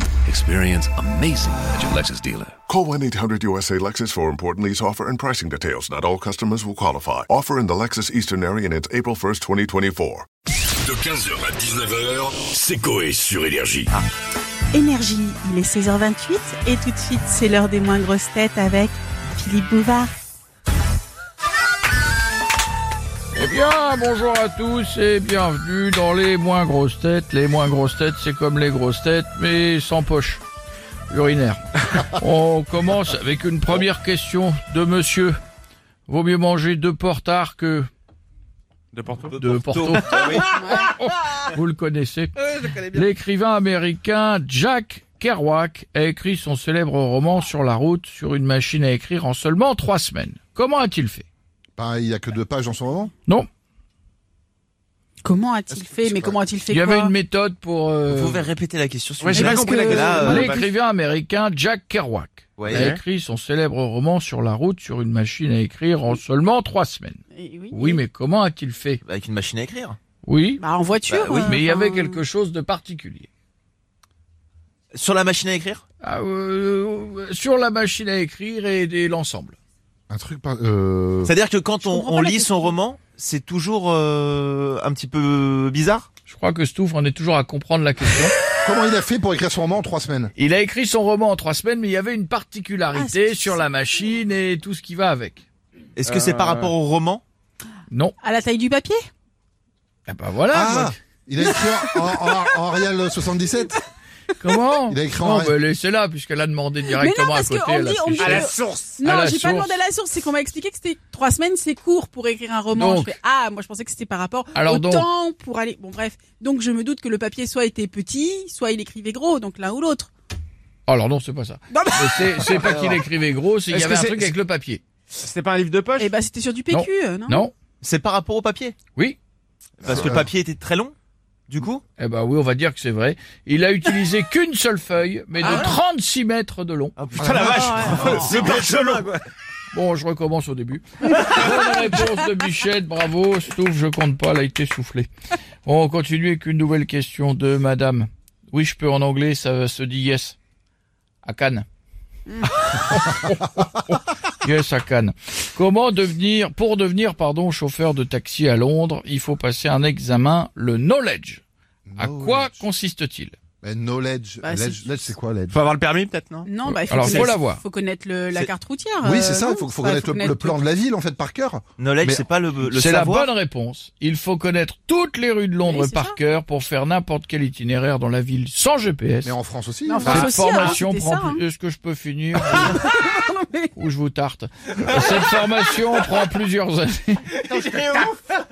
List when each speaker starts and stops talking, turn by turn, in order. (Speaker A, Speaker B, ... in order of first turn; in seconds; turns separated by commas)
Speaker A: 0.2-2.5, Speaker B: 2.7-10.2, Speaker C: 10.8-13.9, Speaker D: 14.7-20.1, Speaker E: 23.3-30.4, Speaker E: 31.1-35.4, Speaker E: 36.1-37.9, Speaker F: 38.9-39.4, Speaker E: 39.4-51.3, Speaker G: 39.4-40.6, Speaker D: 40.5-40.9, Speaker H: 51.8-53.1, Speaker D: 55.2-57.1, Speaker H: 55.7-56.4, Speaker E: 56.7-58.5, Speaker G: 58.1-60.5, Speaker F: 59.2-60.6, Speaker D: 59.3-60.6, Speaker E: 60.1-69.0, Speaker G: 62.6-62.9, Speaker F: 62.8-63.0, Speaker D: 67.3-68.0, Speaker G: 69.0-70.0, Speaker E: 70.2-70.7, Speaker D: 70.6-72.2, Speaker G: 71.1-71.6, Speaker E: 71.4-73.3, Speaker G: 74.9-75.8, Speaker E: 76.0-79.5, Speaker H: 80.1-81.3, Speaker G: 81.2-86.1, Speaker D: 81.8-82.8, Speaker E: 86.3-88.3, Speaker H: 88.6-90.3, Speaker E: 90.3-95.4, Speaker D: 92.9-93.6, Speaker G: 96.0-97.2, Speaker E: 97.9-98.2, Speaker D: 98.2-99.1, Speaker E: 100.0-100.9, Speaker H: 100.5-103.8, Speaker D: 101.4-102.5, Speaker E: 104.4-109.8, Speaker H: 104.9-105.5, Speaker D: 106.8-120.1, Speaker F: 108.2-109.0, Speaker E: 112.7-113.2, Speaker E: 114.5-115.1, Speaker E: 120.9-124.8, Speaker D: 121.7-122.7, Speaker F: 123.7-124.3, Speaker F: 125.1-126.1, Speaker D: 126.0-127.5, Speaker E: 126.7-127.5, Speaker G: 127.8-128.8, Speaker G: 129.8-130.9, Speaker H: 129.8-130.2, Speaker G: 131.5-131.8, Speaker E: 132.0-136.9, Speaker G: 135.4-135.7, Speaker G: 137.0-139.1, Speaker F: 137.2-139.2, Speaker E: 139.7-145.1, Speaker E: 145.6-150.4, Speaker E: 151.2-151.7, Speaker E: 152.6-161.4, Speaker H: 161.9-162.6, Speaker E: 161.9-163.3, Speaker H: 163.6-165.6, Speaker D: 164.4-164.8, Speaker F: 165.5-166.5, Speaker D: 166.4-170.6, Speaker E: 166.8-167.6, Speaker H: 169.0-172.3, Speaker G: 171.8-173.3, Speaker E: 172.7-179.3, Speaker D: 175.6-176.2, Speaker H: 179.2-180.3, Speaker D: 179.9-181.4, Speaker E: 180.0-182.8, Speaker D: 182.6-183.7, Speaker E: 183.7-187.4, Speaker D: 187.5-187.8